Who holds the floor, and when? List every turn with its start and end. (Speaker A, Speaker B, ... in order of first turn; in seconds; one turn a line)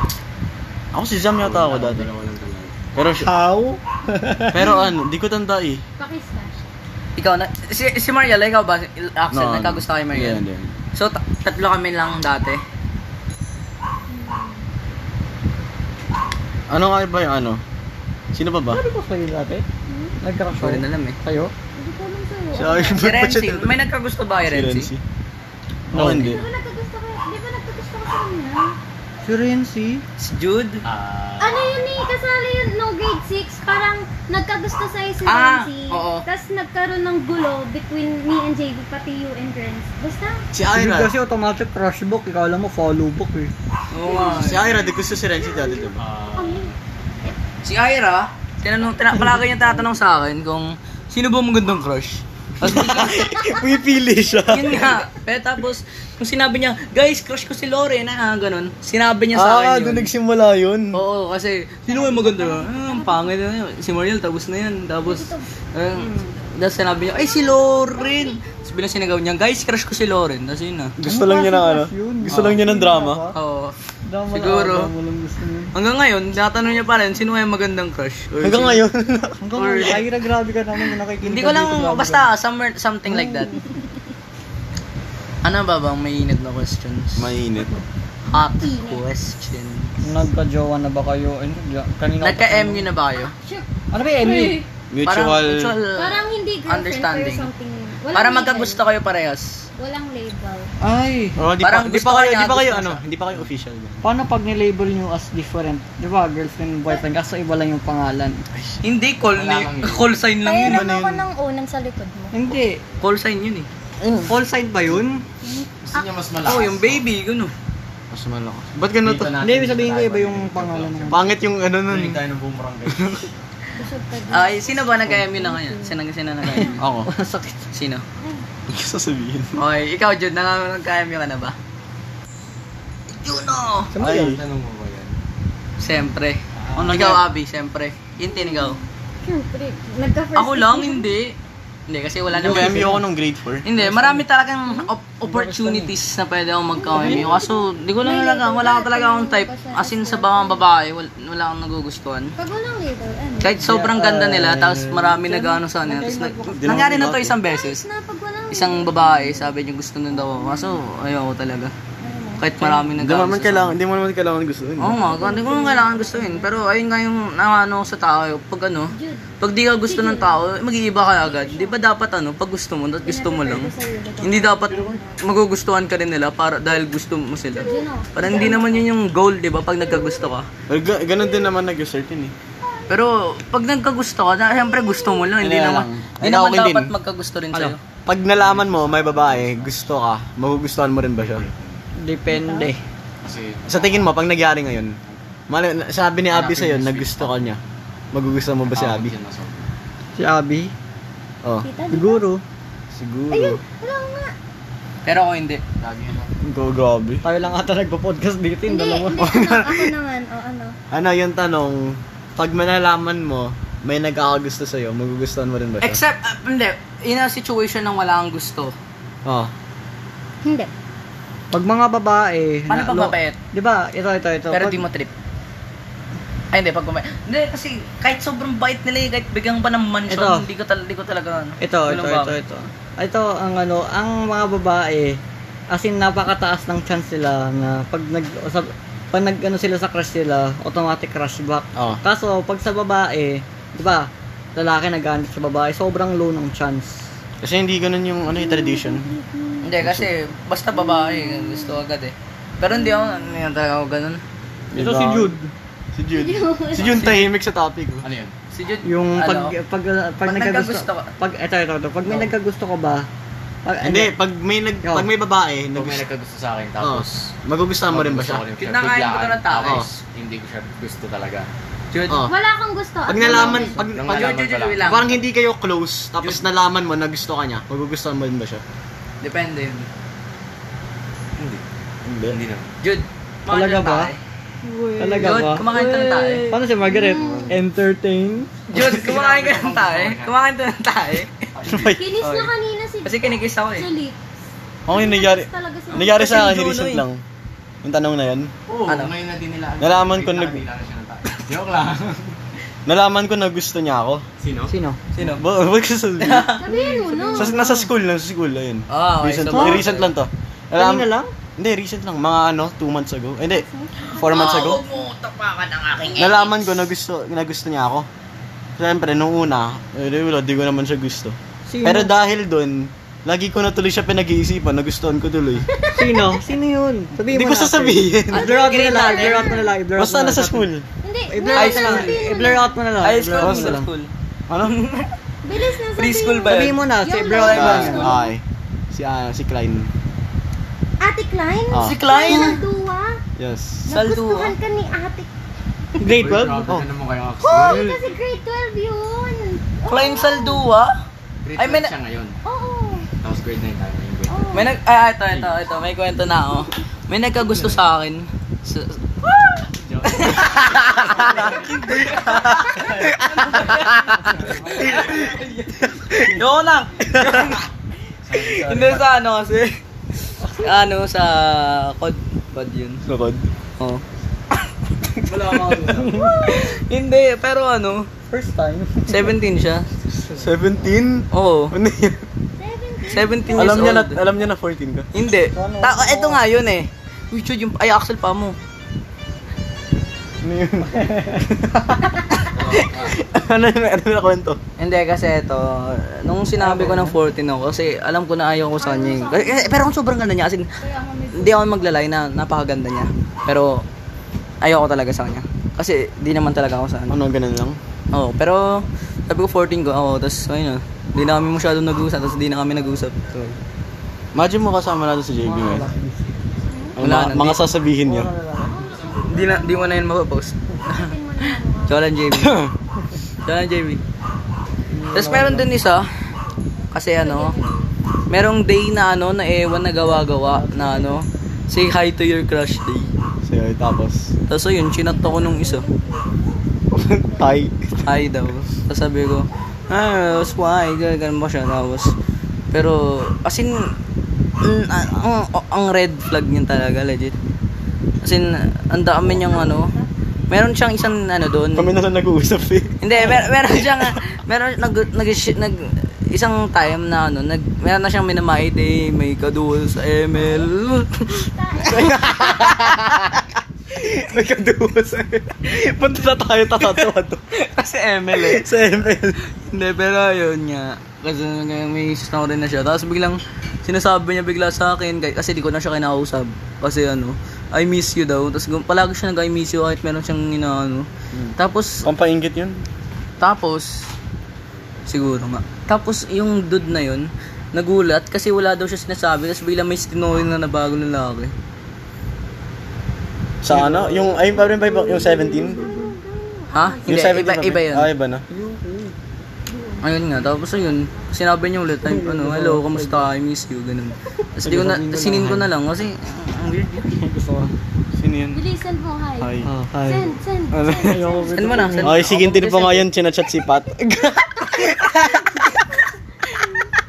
Speaker A: 0.9-2.1
Speaker B: 1.3-2.8
Speaker A: 2.9-3.3
Speaker C: 3.2-4.6
Speaker A: 4.5-5.8
Speaker D: 4.6-4.9
Speaker D: 6.0-6.6
Speaker E: 7.2-10.4
Speaker A: 9.3-10.7
Speaker E: 10.9-12.6
Speaker D: 14.1-14.6
Speaker A: 16.7-17.6
Speaker A: 18.3-18.8
Speaker C: 18.7-19.6
Speaker D: 19.9-20.2
Speaker C: 20.2-21.5
Speaker E: 20.6-21.2
Speaker D: 21.8-23.1
Speaker A: 22.5-23.8
Speaker E: 23.0-24.9
Speaker A: 24.4-25.0
Speaker C: 25.9-26.3
Speaker A: 25.9-26.4
Speaker E: 26.1-26.4
Speaker D: 26.2-28.8
Speaker C: 29.2-30.0
Speaker E: 30.2-30.8
Speaker B: 30.8-31.9
Speaker D: 31.4-40.4
Speaker E: 35.2-36.2
Speaker A: 40.5-41.1
Speaker C: 40.7-43.5
Speaker E: 43.9-44.6
Speaker D: 44.0-44.6
Speaker B: 44.1-45.1
Speaker A: 44.2-46.0
Speaker D: 45.4-46.7
Speaker B: 46.0-46.8
Speaker E: 47.6-53.2
Speaker A: 52.6-55.0
Speaker E: 54.5-60.1
Speaker A: 59.3-61.0
Speaker E: 60.9-70.9
Speaker D: 61.9-63.3
Speaker D: 65.0-66.4
Speaker D: 67.1-68.6
Speaker A: 71.0-73.2
Speaker C: 71.0-73.4
Speaker E: 72.3-72.6
Speaker E: 73.3-73.8
Speaker C: 74.0-75.7
Speaker E: 74.3-74.9
Speaker E: 75.7-78.8
Speaker A: 78.4-79.9
Speaker C: 79.4-82.3
Speaker E: 79.6-80.1
Speaker E: 81.2-83.6
Speaker C: 83.1-83.5
Speaker E: 85.4-87.4
Speaker A: 87.2-87.8
Speaker D: 88.3-89.0
Speaker E: 88.3-90.0
Speaker C: 90.0-92.9
Speaker E: 92.2-93.3
Speaker D: 93.1-93.7
Speaker C: 93.9-94.6
Speaker D: 94.2-94.7
Speaker A: 94.9-95.8
Speaker E: 95.0-97.5
Speaker D: 95.9-98.8
Speaker E: 98.1-99.6
Speaker D: 99.8-100.7
Speaker C: 100.8-101.4
Speaker A: 101.4-104.0
Speaker E: 101.6-103.0
Speaker C: 104.0-108.5
Speaker E: 108.8-110.9
Speaker B: 109.3-110.2
Speaker D: 110.4-112.4
Speaker A: 110.6-111.3
Speaker C: 112.3-112.8
Speaker E: 113.0-113.7
Speaker A: 114.0-114.3
Speaker C: 114.2-115.2
Speaker D: 115.4-116.1
Speaker B: 115.8-117.1
Speaker E: 116.4-117.5
Speaker A: 118.1-119.3
Speaker B: 119.0-123.4
Speaker C: 119.4-121.2
Speaker A: 121.1-122.2
Speaker A: 122.9-123.2
Speaker D: 123.8-126.8
Speaker E: 124.3-126.8
Speaker C: 126.6-127.7
Speaker A: 126.8-127.1
Speaker E: 127.7-128.1
Speaker D: 128.2-128.4
Speaker A: 128.7-129.6
Speaker E: 129.6-131.6
Speaker E: 133.2-133.9
Speaker B: 133.9-135.2
Speaker A: 134.0-134.4
Speaker E: 135.8-138.8
Speaker B: 136.7-137.0
Speaker A: 136.7-137.2
Speaker D: 138.2-141.1
Speaker E: 140.4-141.4
Speaker E: 141.9-143.0
Speaker A: 142.3-143.7
Speaker C: 142.4-143.0
Speaker E: 143.6-152.3
Speaker C: 143.8-144.2
Speaker C: 145.2-145.9
Speaker D: 146.8-150.6
Speaker C: 146.9-147.2
Speaker D: 152.4-153.6
Speaker E: 153.4-157.8
Speaker C: 153.6-156.9
Speaker A: 156.5-157.4
Speaker D: 157.4-159.6
Speaker E: 158.5-161.7
Speaker D: 160.1-160.8
Speaker D: 162.0-162.8
Speaker E: 162.4-163.8
Speaker A: 163.0-165.0
Speaker E: 164.8-180.5
Speaker D: 164.8-166.7
Speaker D: 168.9-169.3
Speaker D: 169.8-170.5
Speaker D: 171.2-171.8
Speaker D: 173.1-175.1
Speaker D: 177.5-178.9
Speaker D: 179.8-180.3
Speaker A: 180.7-182.3
Speaker D: 181.2-181.5
Speaker D: 182.6-183.0
Speaker E: 182.9-187.8
Speaker D: 184.5-185.3
Speaker A: 185.4-186.9
Speaker A: 188.1-191.5
Speaker B: 188.3-189.9
Speaker B: 191.2-191.8
Speaker C: 192.0-192.8
Speaker D: 192.3-192.7
Speaker B: 193.2-194.3
Speaker A: 193.7-194.9
Speaker A: 195.5-197.6
Speaker B: 196.3-197.4
Speaker A: 198.1-199.1
Speaker B: 198.7-199.7
Speaker C: 200.2-200.7
Speaker D: 201.6-202.3
Speaker C: 201.9-202.4
Speaker A: 202.9-203.6
Speaker D: 203.3-204.3
Speaker E: 205.1-205.6
Speaker B: 205.8-206.3
Speaker A: 206.4-207.2
Speaker C: 207.2-209.2
Speaker D: 208.7-210.8
Speaker A: 209.2-210.0
Speaker A: 210.9-216.0
Speaker E: 215.8-218.8
Speaker A: 219.2-219.5
Speaker D: 220.4-220.7
Speaker C: 221.5-224.8
Speaker E: 222.7-223.4
Speaker E: 224.5-225.1
Speaker E: 226.5-232.3
Speaker C: 230.1-230.5
Speaker C: 231.6-235.2
Speaker C: 235.7-247.1
Speaker A: 247.4-249.1
Speaker D: 248.3-249.7
Speaker E: 249.6-254.2
Speaker A: 249.8-250.1
Speaker D: 250.7-251.8
Speaker D: 252.7-253.4
Speaker A: 254.7-255.3
Speaker C: 254.7-255.5
Speaker A: 255.9-258.1
Speaker D: 256.1-257.0
Speaker B: 256.8-257.1
Speaker E: 256.8-257.3
Speaker B: 258.0-258.3
Speaker E: 258.5-259.5
Speaker C: 258.8-263.1
Speaker E: 260.2-261.1
Speaker C: 263.6-264.1
Speaker A: 263.8-266.1
Speaker B: 265.7-267.3
Speaker A: 266.8-268.4
Speaker B: 267.9-271.5
Speaker E: 268.6-269.9
Speaker A: 269.6-269.9
Speaker E: 271.9-272.3
Speaker D: 272.2-273.9
Speaker A: 273.1-278.6
Speaker B: 273.3-275.2
Speaker E: 274.0-275.2
Speaker E: 279.2-279.9
Speaker B: 281.4-281.6
Speaker A: 282.1-282.4
Speaker B: 282.3-282.7
Speaker E: 282.8-284.2
Speaker C: 283.5-284.1
Speaker D: 284.6-287.6
Speaker C: 285.0-288.6
Speaker E: 285.2-286.5
Speaker E: 288.7-291.4
Speaker B: 288.7-290.3
Speaker B: 291.5-291.9
Speaker A: 291.7-292.0
Speaker D: 291.8-294.2
Speaker E: 292.2-292.5
Speaker E: 293.1-293.9
Speaker D: 294.9-296.4
Speaker A: 294.9-297.2
Speaker E: 296.0-297.0
Speaker A: 297.8-298.5
Speaker B: 298.7-302.3
Speaker E: 298.9-299.1
Speaker A: 299.8-300.6
Speaker A: 302.9-304.2
Speaker B: 304.4-304.7
Speaker C: 304.7-305.0
Speaker E: 305.1-305.4
Speaker A: 305.2-306.6
Speaker E: 306.2-307.4
Speaker D: 306.6-307.8
Speaker A: 307.3-314.8
Speaker C: 307.5-307.8
Speaker E: 308.9-310.1
Speaker C: 309.5-309.8
Speaker C: 310.7-311.3
Speaker D: 313.5-314.9
Speaker E: 314.1-316.6
Speaker D: 316.1-316.4
Speaker A: 316.2-318.1
Speaker A: 318.8-325.7
Speaker C: 321.7-322.1
Speaker D: 325.7-326.4
Speaker C: 325.9-330.7
Speaker A: 327.2-328.5
Speaker D: 328.3-329.7
Speaker E: 328.5-329.6
Speaker A: 329.9-330.9
Speaker D: 331.0-332.8
Speaker C: 331.3-333.9
Speaker E: 331.5-332.4
Speaker E: 333.0-334.1
Speaker A: 333.3-333.8
Speaker A: 334.5-334.8
Speaker E: 334.6-335.1
Speaker D: 335.4-338.3
Speaker E: 335.9-336.8
Speaker C: 336.4-338.2
Speaker A: 337.4-339.9
Speaker D: 341.0-343.2
Speaker A: 341.7-342.0
Speaker E: 341.8-342.6
Speaker A: 343.4-343.9
Speaker D: 343.9-345.3
Speaker E: 343.9-344.5
Speaker C: 346.0-346.7
Speaker B: 346.1-348.1
Speaker D: 347.4-350.6
Speaker E: 349.9-350.9
Speaker B: 351.4-352.4
Speaker E: 351.6-351.9
Speaker D: 352.4-353.1
Speaker B: 353.2-354.7
Speaker D: 354.3-354.7
Speaker E: 354.5-367.6
Speaker B: 357.5-357.8
Speaker B: 359.7-362.4
Speaker A: 361.2-363.9
Speaker C: 364.2-364.9
Speaker B: 364.4-365.3
Speaker A: 364.8-366.4
Speaker A: 367.0-367.6
Speaker B: 368.2-369.1
Speaker E: 368.3-369.8
Speaker C: 370.4-370.7
Speaker E: 370.5-373.0
Speaker A: 373.0-373.5
Speaker E: 375.2-378.1
Speaker B: 375.2-376.2
Speaker C: 375.8-376.7
Speaker C: 378.3-379.4
Speaker E: 379.1-379.9
Speaker A: 380.3-382.3
Speaker E: 381.3-381.7
Speaker D: 382.6-384.3
Speaker E: 383.1-384.2
Speaker A: 383.5-385.1
Speaker E: 385.1-388.6
Speaker C: 385.5-386.4
Speaker A: 390.4-394.6
Speaker C: 390.9-391.4
Speaker B: 392.5-393.2
Speaker E: 394.8-400.7
Speaker C: 396.6-397.2
Speaker D: 398.8-399.8
Speaker D: 400.8-402.0
Speaker E: 401.3-403.9
Speaker E: 404.6-407.2
Speaker A: 407.1-407.8
Speaker E: 408.1-413.6
Speaker A: 414.3-415.9
Speaker C: 415.4-416.3
Speaker D: 416.7-417.0
Speaker A: 417.0-418.3
Speaker E: 417.0-417.7
Speaker C: 418.0-418.8
Speaker D: 418.7-420.1
Speaker B: 418.8-419.6
Speaker E: 419.2-421.1
Speaker D: 420.8-422.0
Speaker E: 421.9-422.6
Speaker A: 422.4-422.7
Speaker E: 423.4-424.0
Speaker C: 424.9-425.7
Speaker E: 425.1-426.1
Speaker E: 426.9-427.6
Speaker D: 427.2-427.9
Speaker E: 428.3-433.1
Speaker C: 430.0-431.2
Speaker A: 433.4-434.3
Speaker E: 434.5-435.9
Speaker D: 435.0-436.6
Speaker A: 436.9-438.0
Speaker E: 438.0-442.1
Speaker D: 439.9-440.7
Speaker E: 442.7-443.8
Speaker E: 444.6-447.4
Speaker E: 448.2-449.9
Speaker D: 449.2-450.1
Speaker E: 450.5-451.9
Speaker A: 451.7-454.2
Speaker E: 453.0-462.1
Speaker D: 460.4-462.7
Speaker A: 461.8-467.4
Speaker E: 466.8-468.7
Speaker A: 468.3-469.4
Speaker E: 469.6-482.1
Speaker A: 481.3-482.8
Speaker E: 483.4-483.9
Speaker E: 485.1-491.5
Speaker A: 493.6-495.8
Speaker C: 493.7-494.6
Speaker D: 494.4-497.3
Speaker E: 496.7-498.1
Speaker A: 497.1-498.4
Speaker C: 498.5-499.1
Speaker D: 499.7-501.2
Speaker E: 500.0-507.1
Speaker C: 502.1-503.3
Speaker C: 504.6-505.7
Speaker C: 507.0-507.7
Speaker A: 508.2-508.6
Speaker D: 508.5-512.1
Speaker A: 509.4-509.7
Speaker C: 509.6-512.4
Speaker A: 510.7-511.2
Speaker E: 511.5-513.0
Speaker A: 512.0-515.7
Speaker D: 516.5-516.9